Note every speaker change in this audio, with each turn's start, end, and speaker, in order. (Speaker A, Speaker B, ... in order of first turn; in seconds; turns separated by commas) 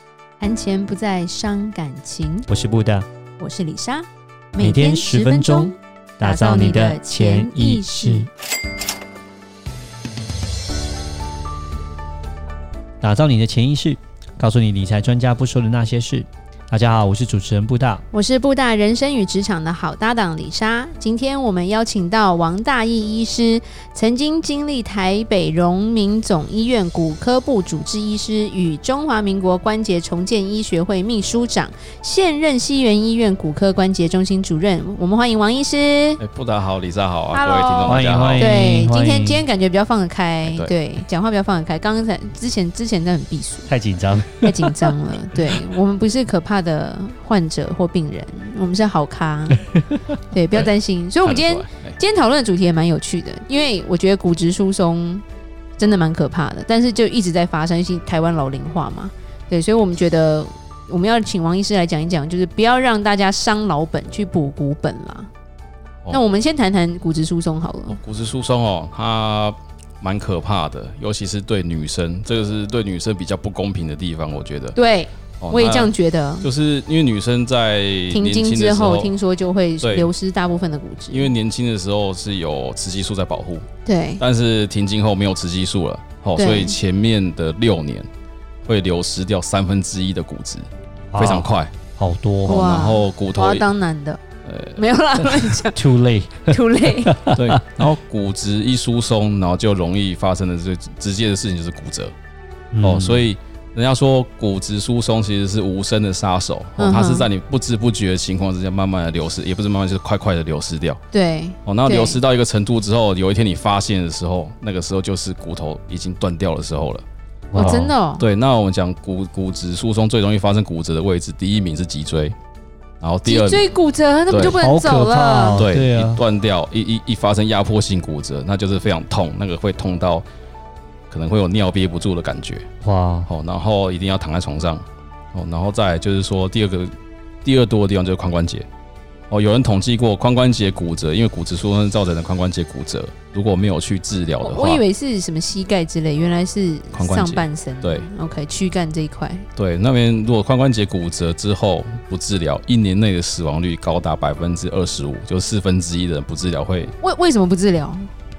Speaker A: 0.4-2.5, Speaker B: 2.5-3.1, Speaker A: 3.4-8.3, Speaker B: 4.6-8.3, Speaker B: 13.0-18.0, Speaker A: 18.1-36.2, Speaker C: 36.2-38.5, Speaker A: 37.3-43.7, Speaker B: 37.9-39.4, Speaker C: 40.5-40.7, Speaker B: 43.7-44.9, Speaker A: 44.4-49.6, Speaker A: 50.3-55.2, Speaker C: 51.2-52.0, Speaker A: 55.8-65.3, Speaker A: 66.1-68.0, Speaker C: 67.9-74.8, Speaker A: 74.8-76.5, Speaker C: 75.4-79.2, Speaker A: 78.1-81.3, Speaker C: 79.8-80.1, Speaker C: 81.1-83.7, Speaker A: 83.8-84.2, Speaker C: 84.2-88.1, Speaker A: 86.4-86.8, Speaker C: 88.7-91.7, Speaker B: 91.1-92.7, Speaker C: 92.4-93.7, Speaker A: 92.5-94.2, Speaker C: 94.4-94.8, Speaker A: 94.8-95.8, Speaker B: 95.8-97.8, Speaker A: 96.5-97.2, Speaker C: 97.3-102.1, Speaker B: 102.7-103.3, Speaker C: 102.8-111.0, Speaker A: 106.8-107.3, Speaker A: 111.1-112.2, Speaker C: 111.7-117.0, Speaker B: 117.5-117.9, Speaker A: 117.5-118.2, Speaker C: 117.6-122.3, Speaker C: 123.0-123.7, Speaker A: 123.2-125.7, Speaker C: 124.3-124.6, Speaker B: 124.6-126.2, Speaker C: 125.5-130.2, Speaker C: 131.1-132.7, Speaker B: 132.8-133.3, Speaker C: 133.3-136.9, Speaker C: 137.4-138.7, Speaker C: 139.3-144.8, Speaker A: 144.4-149.4, Speaker C: 146.9-148.1, Speaker C: 149.6-156.9, Speaker A: 157.0-158.1